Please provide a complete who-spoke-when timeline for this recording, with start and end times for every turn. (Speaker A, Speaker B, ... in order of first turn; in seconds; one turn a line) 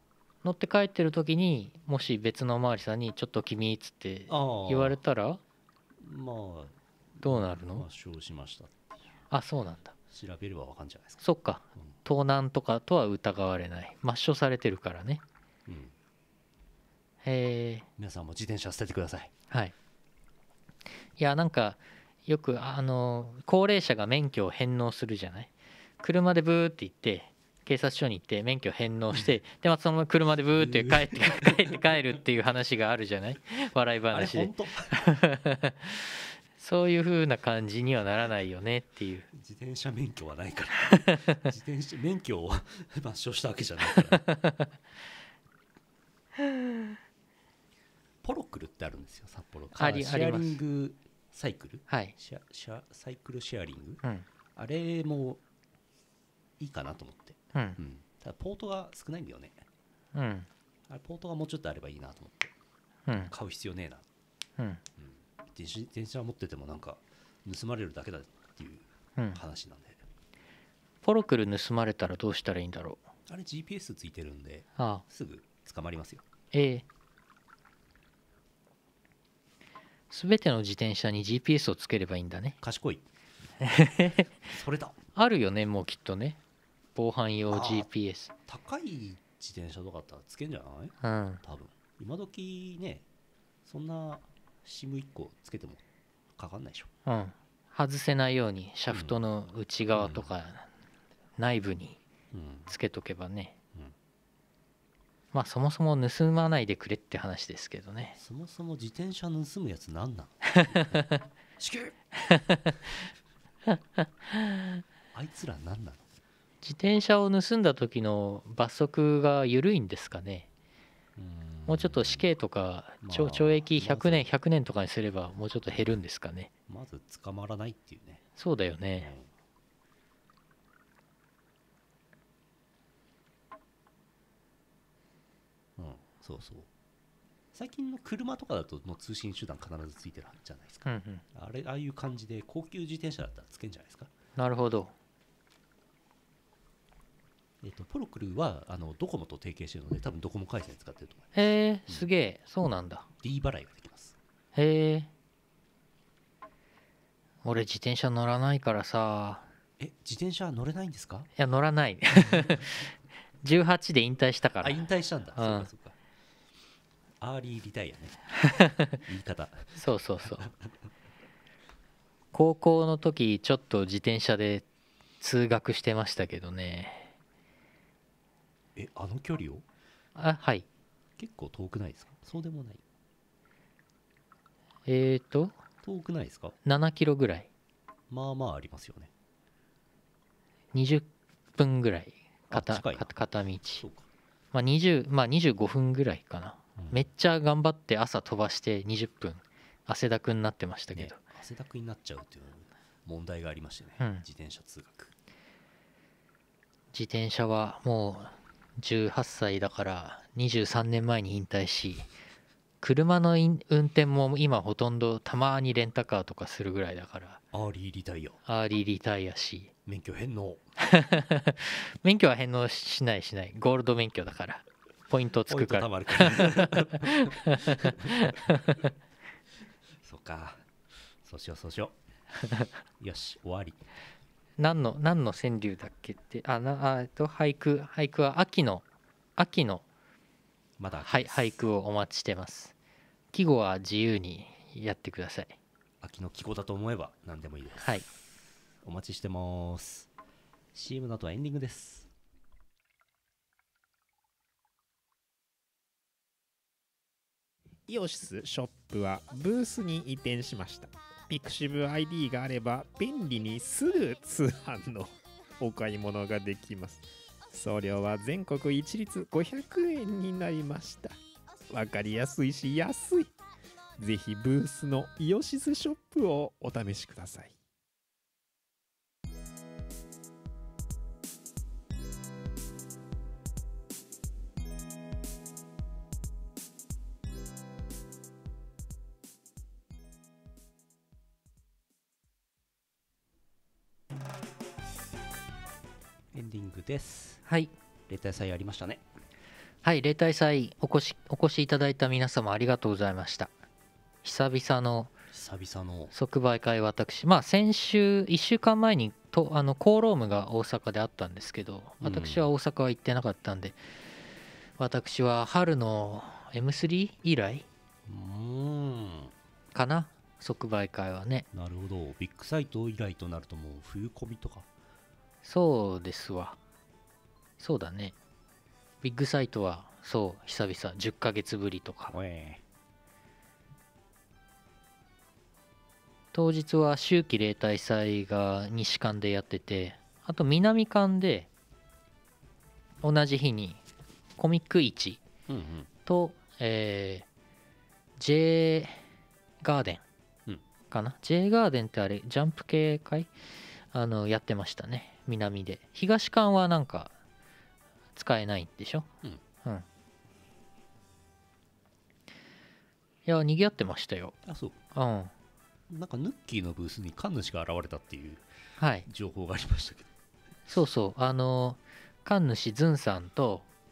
Speaker A: 0.4-5.4
Speaker B: 4.3-5.0
Speaker B: 6.0-9.0
Speaker A: 7.2-7.9
Speaker A: 9.3-9.9
Speaker B: 10.1-11.2
Speaker A: 11.2-15.2
Speaker B: 15.7-15.9
Speaker A: 17.2-17.9
Speaker B: 18.0-19.3
Speaker A: 21.2-39.3
Speaker B: 30.6-31.8
Speaker B: 34.1-35.0
Speaker B: 39.3-44.3
Speaker A: 44.1-44.7
Speaker B: 48.2-54.0
Speaker A: 49.8-50.6
Speaker A: 51.9-52.1
Speaker B: 54.6-55.4
Speaker B: 56.6-59.6
Speaker A: 60.1-60.5
Speaker B: 60.9-62.5
Speaker A: 63.1-63.3
Speaker B: 63.3-64.0
Speaker B: 65.0-70.0
Speaker A: 71.0-73.0
Speaker B: 73.3-76.2
Speaker A: 74.8-75.0
Speaker A: 76.5-76.8
Speaker A: 80.1-82.6
Speaker B: 82.6-83.0
Speaker A: 83.6-84.3
Speaker B: 84.5-85.0
Speaker A: 85.2-86.4
Speaker A: 87.0-88.3
Speaker B: 87.5-87.9
Speaker B: 88.5-93.0
Speaker A: 91.0-91.4
Speaker B: 93.7-95.8
Speaker B: 96.4-96.9
Speaker A: 97.1-100.7
Speaker B: 98.9-99.2
Speaker B: 100.0-100.3
Speaker A: 101.4-102.0
Speaker B: 102.3-102.7
Speaker A: 102.7-103.5
Speaker A: 105.3-108.2
Speaker B: 108.2-111.1
Speaker A: 110.6-111.2
Speaker B: 111.6-112.0
Speaker A: 112.3-112.7
Speaker A: 113.7-114.8
Speaker B: 115.1-116.0
Speaker A: 116.6-120.5
Speaker B: 121.2-122.3
Speaker A: 121.7-126.5
Speaker B: 123.0-124.3
Speaker B: 126.7-128.2
Speaker A: 128.4-129.1
Speaker B: 129.0-129.3
Speaker B: 135.8-136.7
Speaker B: 137.5-144.1
Speaker A: 140.9-141.2
Speaker A: 144.4-144.9
Speaker B: 147.6-151.3
Speaker A: 151.3-153.1
Speaker B: 153.2-154.2
Speaker A: 154.6-155.1
Speaker A: 157.4-159.5
Speaker B: 159.8-161.3
Speaker A: 161.4-164.8
Speaker B: 164.6-166.0
Speaker A: 165.4-165.7
Speaker B: 167.2-168.2
Speaker A: 168.4-169.0
Speaker B: 169.0-170.5
Speaker A: 169.8-170.5
Speaker A: 172.3-174.7
Speaker A: 175.2-177.1
Speaker B: 178.8-179.6
Speaker A: 180.2-180.7
Speaker B: 181.2-182.8
Speaker A: 184.9-185.6
Speaker B: 185.8-186.6
Speaker A: 186.7-187.5
Speaker B: 188.1-189.1
Speaker A: 190.7-193.8
Speaker B: 192.5-193.1
Speaker B: 193.8-194.1
Speaker A: 194.5-201.2
Speaker B: 196.8-197.0
Speaker B: 200.9-205.1
Speaker A: 204.0-204.2
Speaker A: 206.9-212.1
Speaker A: 212.8-217.4
Speaker B: 217.5-218.4
Speaker A: 218.5-219.7
Speaker B: 219.9-220.6
Speaker A: 220.8-228.9
Speaker B: 225.5-228.5
Speaker B: 230.0-230.6
Speaker B: 231.2-231.9
Speaker B: 233.0-233.8
Speaker A: 234.6-238.8
Speaker A: 239.4-239.8
Speaker B: 240.8-241.5
Speaker A: 241.0-242.7
Speaker A: 243.3-245.6
Speaker B: 246.0-250.1
Speaker A: 247.8-248.1
Speaker B: 250.7-252.1
Speaker C: 257.9-267.0
Speaker C: 267.5-271.1
Speaker C: 271.7-273.3
Speaker C: 274.0-277.5
Speaker B: 296.3-297.4
Speaker A: 297.5-297.7
Speaker B: 298.1-299.0
Speaker A: 299.8-303.5
Speaker A: 304.2-305.1
Speaker B: 305.3-306.1
Speaker A: 306.1-313.8
Speaker B: 312.0-312.5
Speaker A: 314.8-317.7
Speaker B: 318.1-319.3
Speaker A: 319.7-321.5
Speaker B: 321.5-324.7
Speaker A: 325.4-326.6
Speaker A: 327.6-328.1
Speaker A: 329.0-332.2
Speaker B: 332.1-332.6
Speaker A: 336.3-341.5
Speaker A: 343.0-343.8
Speaker A: 344.4-345.2
Speaker B: 345.5-345.9
Speaker A: 346.1-347.3
Speaker A: 348.2-349.0
Speaker A: 349.6-350.0
Speaker A: 350.9-353.3
Speaker A: 353.9-357.1
Speaker A: 358.1-359.1
Speaker A: 363.3-364.4
Speaker B: 364.4-364.8
Speaker A: 364.9-365.3
Speaker B: 365.9-368.4
Speaker A: 368.8-369.1
Speaker B: 369.1-370.1
Speaker A: 370.7-373.7